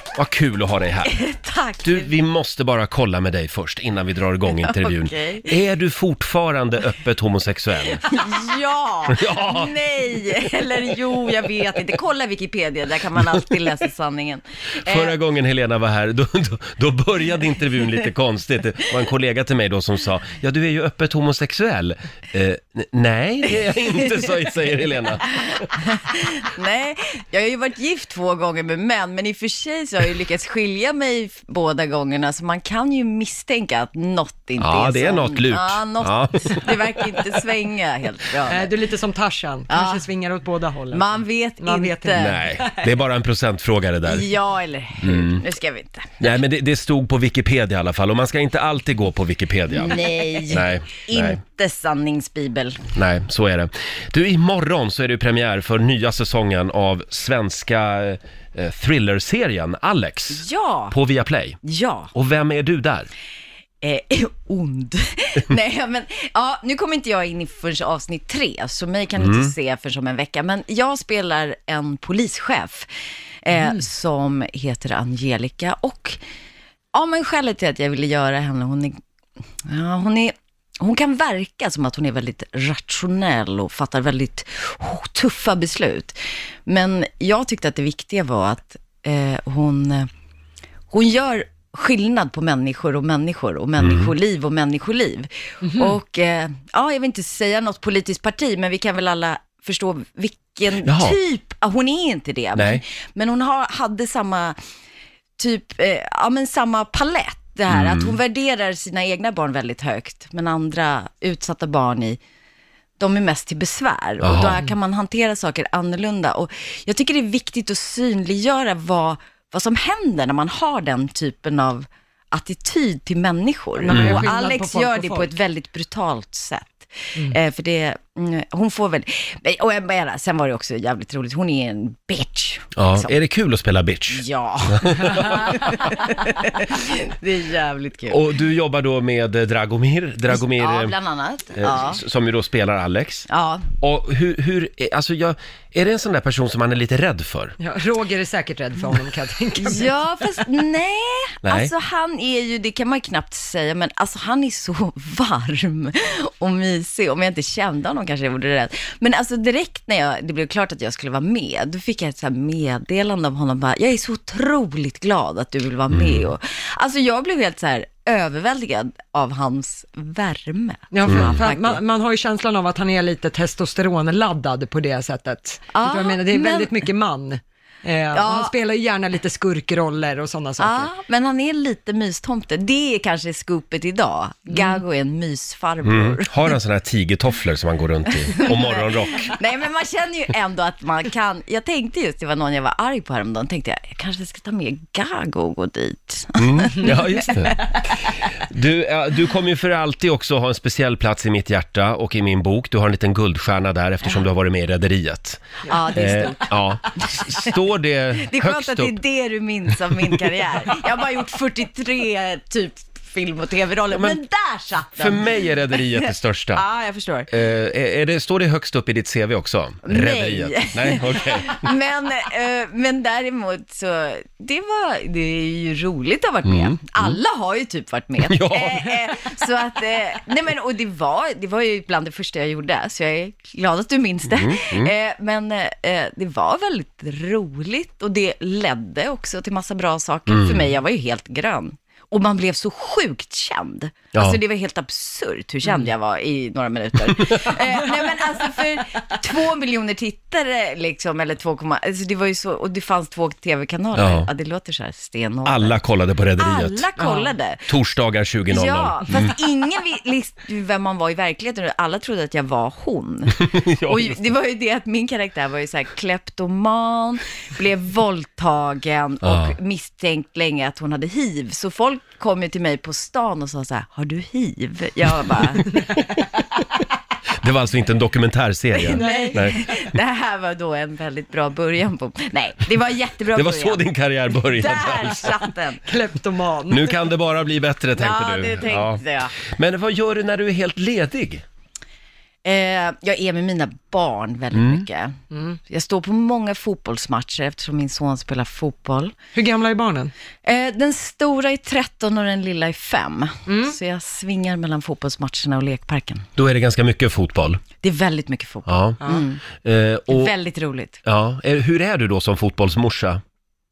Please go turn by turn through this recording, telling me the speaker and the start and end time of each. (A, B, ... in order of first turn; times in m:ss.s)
0:00.1-0:01.1 A
0:01.0-0:02.1 B
0:01.8-0:08.0 A
0:04.5-0:05.5 B
0:08.0-0:15.1 B
0:09.1-0:09.7 A
0:14.8-0:25.7 A
0:25.4-0:38.7 B
0:34.6-0:36.7 A
0:38.4-0:42.9 C
0:39.7-0:40.0 B
0:40.9-0:42.4 B
0:42.2-0:44.3 A
0:44.1-0:46.1 B
0:45.0-0:45.4 A
0:46.2-0:51.4 A
0:49.7-0:52.8 B
0:52.9-1:01.6 A
1:00.3-1:01.0 B
1:01.6-1:02.1 B
1:02.1-1:03.1 A
1:03.8-1:12.9 B
1:09.2-1:09.5 A
1:13.4-1:16.2 B
1:16.9-1:19.0 B
1:19.6-1:30.1 B
1:30.9-1:44.6 B
1:33.8-1:34.1 A
1:35.6-1:35.9 C
1:40.8-1:41.2 A
1:42.5-1:42.8 A
1:45.4-1:52.2 B
1:47.7-1:48.2 A
1:53.0-2:13.1 B
1:54.2-1:54.6 A
2:03.8-2:05.3 C
2:03.9-2:04.2 A
2:12.8-2:15.9 A
2:14.1-2:18.3 B
2:18.1-2:20.9 A
2:20.3-2:22.0 B
2:21.6-2:23.3 A
2:23.3-2:23.7 B
2:23.8-2:27.6 A
2:27.6-2:29.9 C
2:29.6-2:51.8 B
2:31.4-2:31.7 A
2:45.9-2:46.3 A
2:50.9-3:00.9 C
2:51.0-2:51.4 A
2:55.7-2:56.8 B
2:58.1-2:58.5 B
3:00.6-3:06.5 B
3:04.5-3:04.8 C
3:05.8-3:09.3 A
3:08.3-3:17.8 B
3:16.4-3:17.6 A
3:18.5-3:25.4 A
3:25.7-3:27.5 B
3:25.9-3:29.0 A
3:28.2-3:37.3 B
3:33.9-3:34.2 A
3:35.0-3:36.6 A
3:37.3-3:41.7 A
3:39.8-4:15.8 B
3:46.4-3:47.2 A
3:48.2-3:49.0 A
3:54.3-3:54.9 A
4:00.3-4:00.6 A
4:04.1-4:04.4 A
4:13.9-4:14.3 A
4:15.4-4:16.8 A
4:16.4-4:17.6 B
4:17.0-4:17.3 C
4:17.7-4:19.3 A
4:18.5-4:35.8 B
4:23.4-4:24.2 A
4:29.2-4:29.6 A
4:37.4-4:39.6 A
4:38.8-4:45.8 B
4:38.9-4:39.5 C
4:43.3-4:45.3 A
4:45.8-4:46.9 C
4:46.7-4:51.4 A
4:48.0-4:49.3 B
4:52.4-4:59.2 B
4:54.5-4:54.8 A
4:55.3-4:55.6 C
4:59.3-5:00.1 C
5:00.4-5:06.2 B
5:03.4-5:03.8 C
5:06.4-5:07.6 A
5:07.8-5:09.4 B
5:08.6-5:10.3 A
5:10.1-5:11.0 B
5:11.0-5:13.2 A